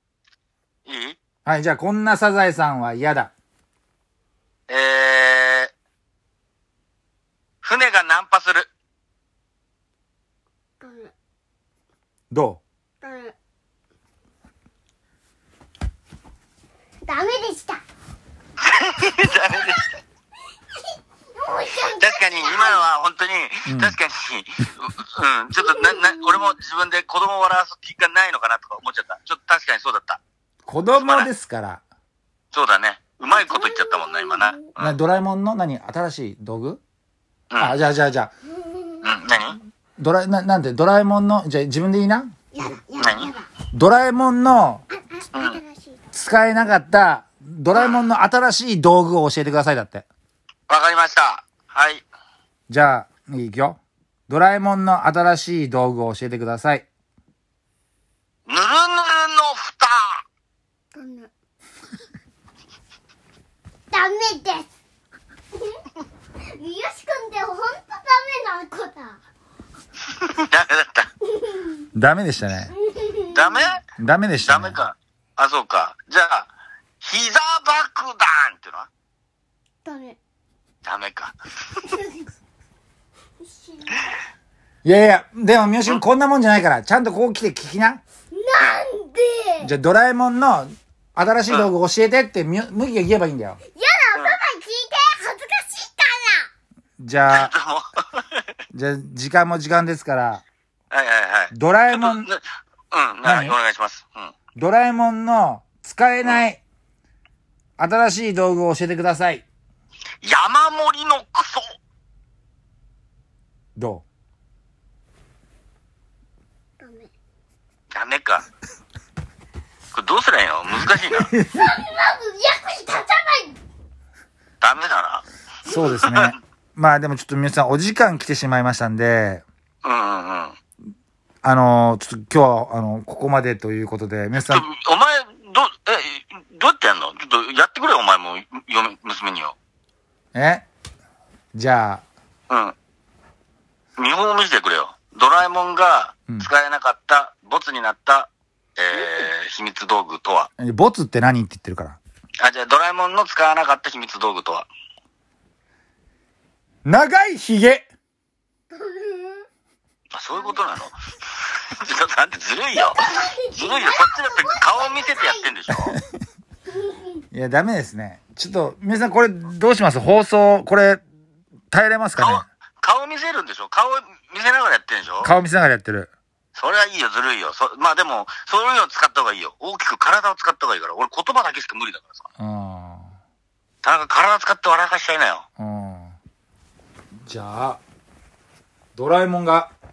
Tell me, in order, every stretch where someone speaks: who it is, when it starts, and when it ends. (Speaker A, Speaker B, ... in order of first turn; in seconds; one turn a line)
Speaker A: 0.9-1.2
Speaker B: 1.5-3.3
Speaker A: 4.7-5.7
Speaker A: 7.6-8.7
Speaker C: 10.8-11.1
Speaker B: 12.3-12.6
Speaker C: 13.0-13.3
Speaker C: 17.0-17.8
Speaker A: 18.6-19.9
Speaker C: 21.4-22.8
Speaker A: 21.8-30.2
Speaker B: 23.7-24.0
Speaker C: 25.7-26.4
Speaker B: 30.7-31.8
Speaker A: 31.0-31.3
Speaker A: 32.5-35.0
Speaker C: 33.4-34.7
Speaker B: 34.8-36.8
Speaker A: 37.5-37.8
Speaker B: 37.6-38.3
Speaker C: 38.5-39.1
Speaker A: 39.0-39.6
Speaker B: 40.0-42.3
Speaker C: 42.5-43.5
Speaker A: 43.0-43.3
Speaker B: 43.7-44.8
Speaker C: 44.9-46.1
Speaker A: 45.3-45.6
Speaker B: 46.1-50.1
Speaker A: 50.7-52.0
Speaker B: 52.7-56.9
Speaker A: 58.5-60.2
Speaker C: 60.9-61.3
Speaker C: 63.9-64.7
Speaker C: 66.5-69.2
Speaker A: 70.1-71.1
Speaker C: 71.3-71.8
Speaker B: 71.9-72.7
Speaker C: 72.8-73.7
Speaker A: 73.3-73.8
Speaker B: 74.0-74.8
Speaker A: 74.4-76.5
Speaker A: 77.0-78.9
Speaker C: 79.8-80.2
Speaker A: 80.8-81.3
Speaker C: 81.8-82.2
Speaker C: 83.4-84.1
Speaker B: 84.8-88.0
Speaker C: 88.3-89.7
Speaker A: 88.6-88.8
Speaker B: 89.6-93.6
Speaker C: 93.8-96.5
Speaker B: 97.0-97.5
Speaker A: 97.3-98.2
Speaker B: 98.7-100.4
Speaker A: 100.9-104.3
Speaker B: 101.5-102.3
Speaker B: 103.2-103.6
Speaker B: 104.6-106.6
Speaker B: 107.8-109.5
Speaker A: 110.2-111.7
Speaker B: 113.8-114.0
Speaker C: 116.8-117.1
Speaker A: 117.9-118.5
Speaker A: 119.9-121.3
Speaker B: 121.1-121.6
Speaker C: 121.5-123.6
Speaker A: 124.6-125.2
Speaker B: 125.7-129.4
Speaker C: 125.7-125.9
Speaker A: 126.0-126.3
Speaker A: 129.8-130.6
Speaker B: 131.4-134.7
Speaker A: 134.4-139.6
Speaker B: 140.3-140.7
Speaker B: 141.5-142.0
Speaker A: 142.5-142.8
Speaker A: 144.0-150.5
Speaker B: 150.6-152.0
Speaker A: 152.4-154.7
Speaker B: 156.9-157.9
Speaker C: 158.7-159.5
Speaker A: 160.1-166.0
Speaker C: 162.8-165.5
Speaker C: 166.7-167.2
Speaker B: 167.3-171.0
Speaker B: 171.7-172.4
Speaker A: 172.2-175.3
Speaker B: 175.2-176.1
Speaker A: 176.6-182.2
Speaker B: 182.4-183.1
Speaker A: 183.8-185.5
Speaker B: 185.6-186.2
Speaker B: 187.3-187.8
Speaker B: 189.0-189.7